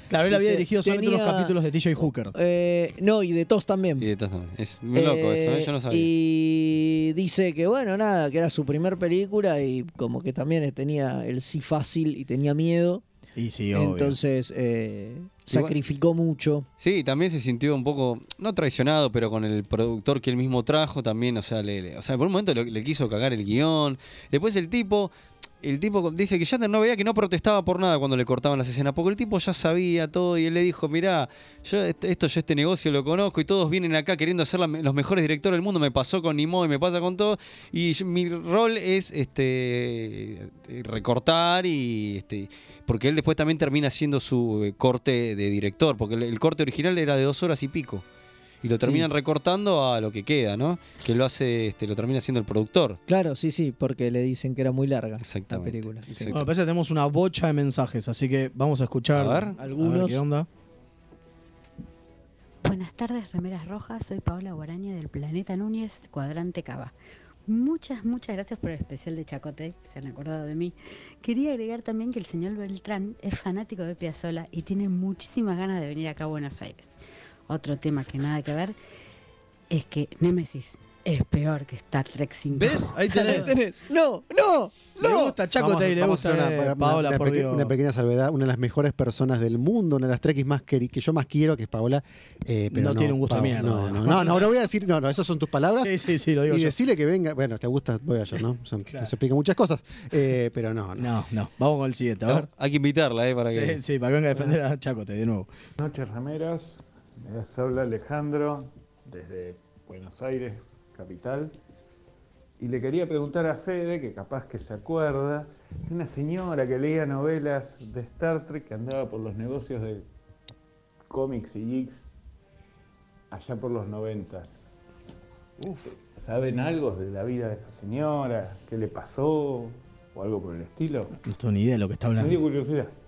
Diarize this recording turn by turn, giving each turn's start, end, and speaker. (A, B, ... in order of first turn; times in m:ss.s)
0:00.1-0:02.3 A
0:00.3-0:01.5 B
0:02.3-0:04.1 B
0:04.0-0:06.1 C
0:04.9-0:13.0 B
0:13.4-0:14.2 A
0:13.7-0:16.7 B
0:16.8-0:48.0 C
0:48.6-0:53.0 C
0:48.8-0:49.1 B
0:53.1-0:56.3 B
0:55.2-0:56.5 C
0:56.3-1:00.5 A
0:59.1-0:59.6 C
0:59.6-1:00.2 B
1:02.6-1:06.9 D
1:07.5-1:17.0 D
1:17.5-1:18.8 D
1:19.7-1:23.5 D
1:22.5-1:23.5 A
1:23.1-1:25.0 B
1:25.0-1:27.7 A
1:25.0-1:36.0 E
1:32.7-1:34.5 A
1:35.7-1:36.8 A
1:36.5-1:41.1 E
1:41.0-1:42.5 A
1:42.3-1:43.8 C
1:43.5-1:45.5 A
1:45.8-1:51.5 F
1:52.6-2:00.1 F
2:01.1-2:02.1 F
2:03.3-2:04.6 F
2:05.6-2:11.2 F
2:11.2-2:12.4 A
2:12.2-2:12.9 F